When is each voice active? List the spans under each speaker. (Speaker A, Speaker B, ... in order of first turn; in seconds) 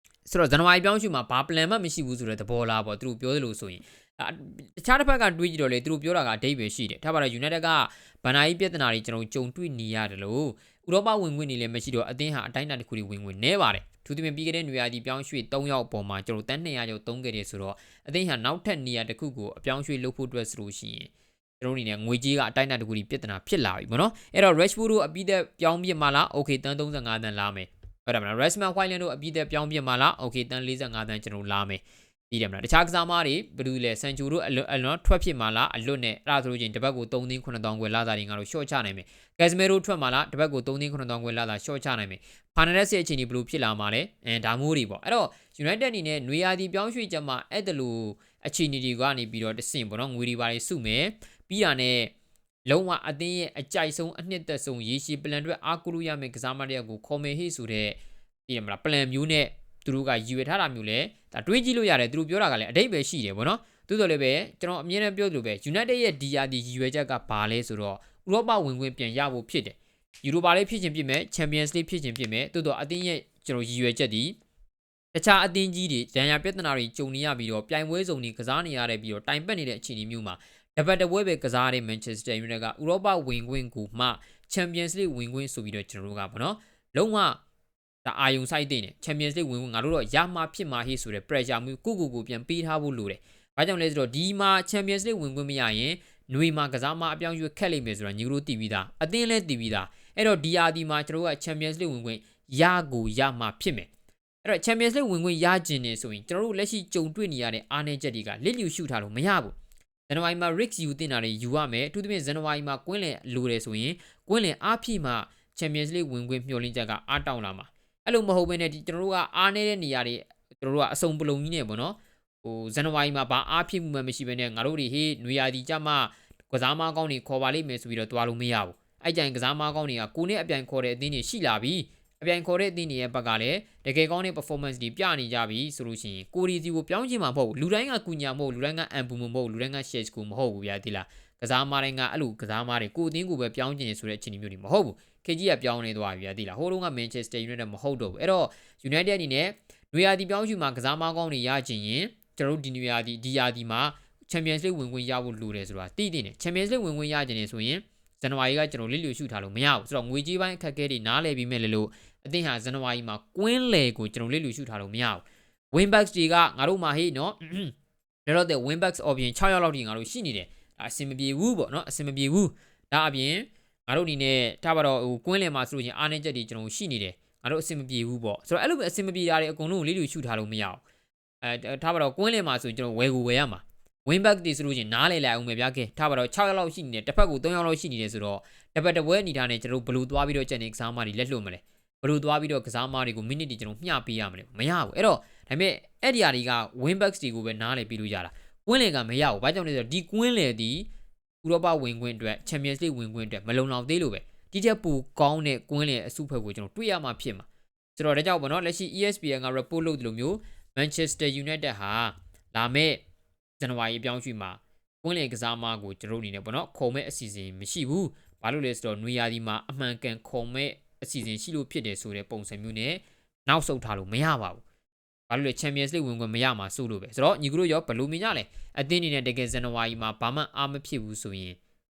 Speaker A: 0.2-52.1, 52.6-74.3, 75.1-87.4, 88.0-103.9, 104.4-109.5, 110.1-167.7, 168.2-180.8, 181.4-200.9, 201.4-213.0, 213.6-224.6, 225.3-231.6